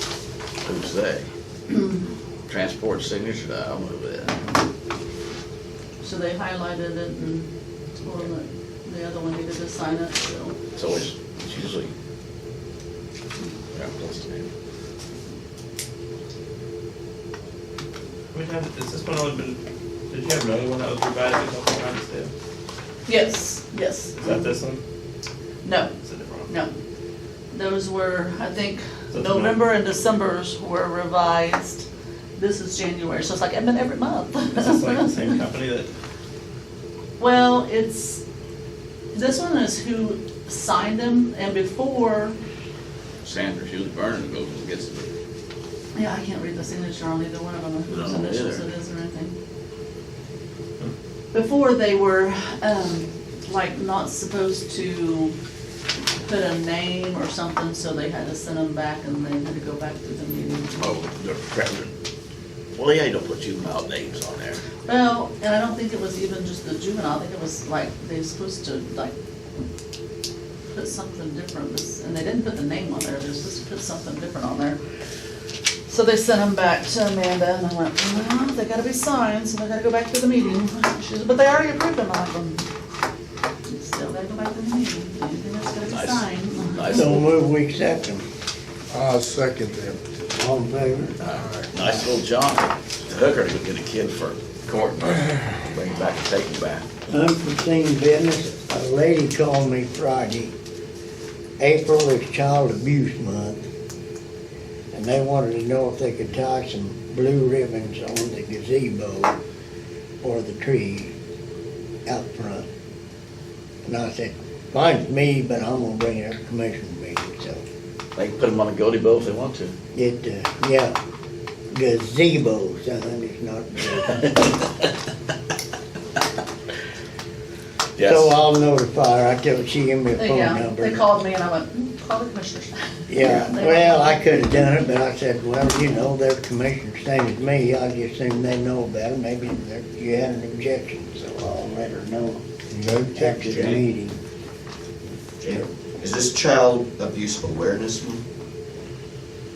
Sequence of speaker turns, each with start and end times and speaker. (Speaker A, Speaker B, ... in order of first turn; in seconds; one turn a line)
Speaker A: 0.6-1.2
Speaker B: 1.7-2.0
Speaker A: 2.5-4.4
Speaker B: 6.0-10.5
Speaker A: 10.7-11.9
Speaker A: 13.7-14.5
Speaker C: 18.3-19.6
Speaker C: 20.1-22.3
Speaker B: 23.1-24.4
Speaker C: 24.1-24.8
Speaker B: 25.6-25.9
Speaker C: 26.0-26.5
Speaker B: 26.5-26.7
Speaker B: 27.5-31.8
Speaker C: 29.1-29.6
Speaker B: 32.4-35.3
Speaker C: 34.5-35.9
Speaker B: 37.2-38.2
Speaker B: 39.1-42.4
Speaker A: 43.2-45.1
Speaker B: 45.9-49.3
Speaker A: 47.9-48.6
Speaker B: 51.3-55.3
Speaker B: 56.2-60.9
Speaker A: 60.8-61.9
Speaker A: 62.7-64.6
Speaker B: 64.8-69.1
Speaker B: 70.7-74.8
Speaker B: 75.9-82.6
Speaker B: 83.7-87.2
Speaker A: 85.8-87.2
Speaker D: 86.9-88.2
Speaker E: 88.9-90.0
Speaker D: 90.3-91.2
Speaker A: 91.2-96.8
Speaker E: 91.3-91.7
Speaker D: 97.1-100.5
Speaker D: 101.6-103.6
Speaker D: 104.9-109.4
Speaker D: 110.2-111.1
Speaker D: 112.0-112.6
Speaker D: 113.8-117.6
Speaker A: 118.2-119.7
Speaker D: 119.9-120.9
Speaker D: 121.7-124.6
Speaker A: 128.0-128.3
Speaker D: 128.0-131.0
Speaker B: 130.2-134.4
Speaker D: 133.1-142.4
Speaker E: 142.7-143.3
Speaker D: 143.1-144.2
Speaker A: 143.3-143.8
Speaker F: 145.4-148.2